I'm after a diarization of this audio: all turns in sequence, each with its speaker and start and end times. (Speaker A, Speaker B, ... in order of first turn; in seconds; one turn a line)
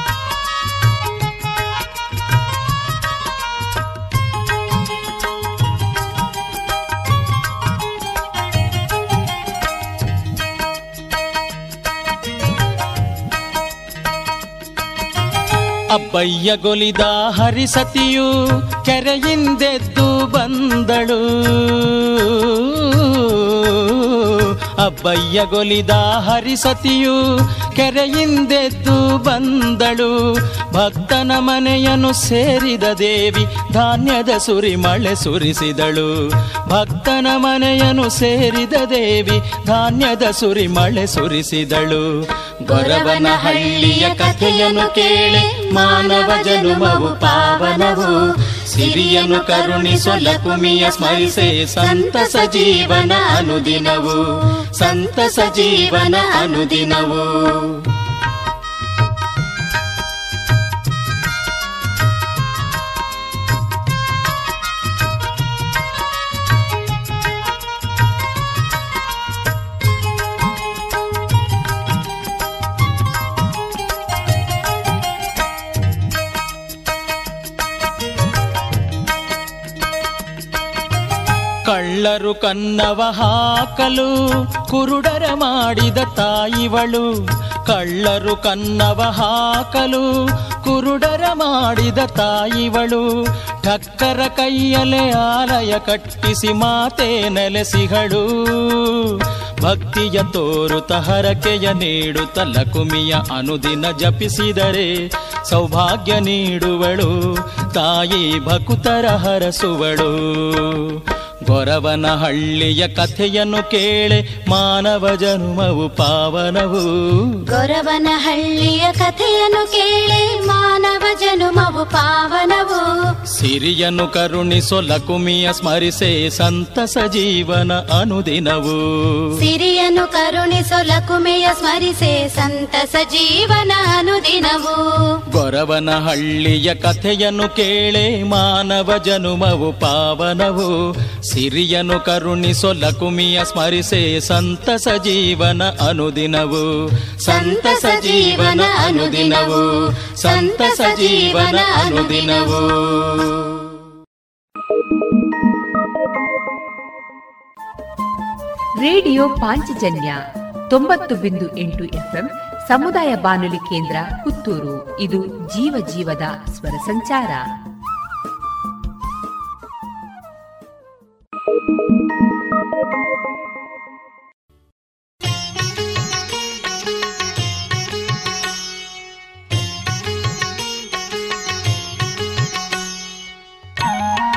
Speaker A: 15.9-18.3
Speaker A: 18.8-27.1
Speaker A: 27.8-30.1
Speaker A: 30.7-36.1
Speaker A: 36.7-42.0
Speaker A: 42.6-48.1
Speaker B: 42.7-48.1
Speaker A: 48.7-54.2
Speaker B: 48.8-54.1
Speaker A: 54.8-57.3
Speaker B: 54.8-57.1
Speaker A: 81.7-84.1
Speaker A: 84.7-87.0
Speaker A: 87.7-90.0
Speaker A: 90.6-93.0
Speaker A: 93.6-99.1
Speaker A: 99.6-104.9
Speaker A: 105.5-107.1
Speaker A: 107.7-110.9
Speaker A: 111.5-116.8
Speaker B: 117.5-122.8
Speaker A: 123.3-129.2
Speaker B: 129.4-134.8
Speaker A: 135.3-140.7
Speaker A: 141.3-146.6
Speaker A: 147.2-149.7
Speaker B: 147.3-149.6
Speaker A: 150.2-153.3
Speaker B: 150.3-152.6
Speaker C: 158.9-160.2
Speaker C: 160.8-167.4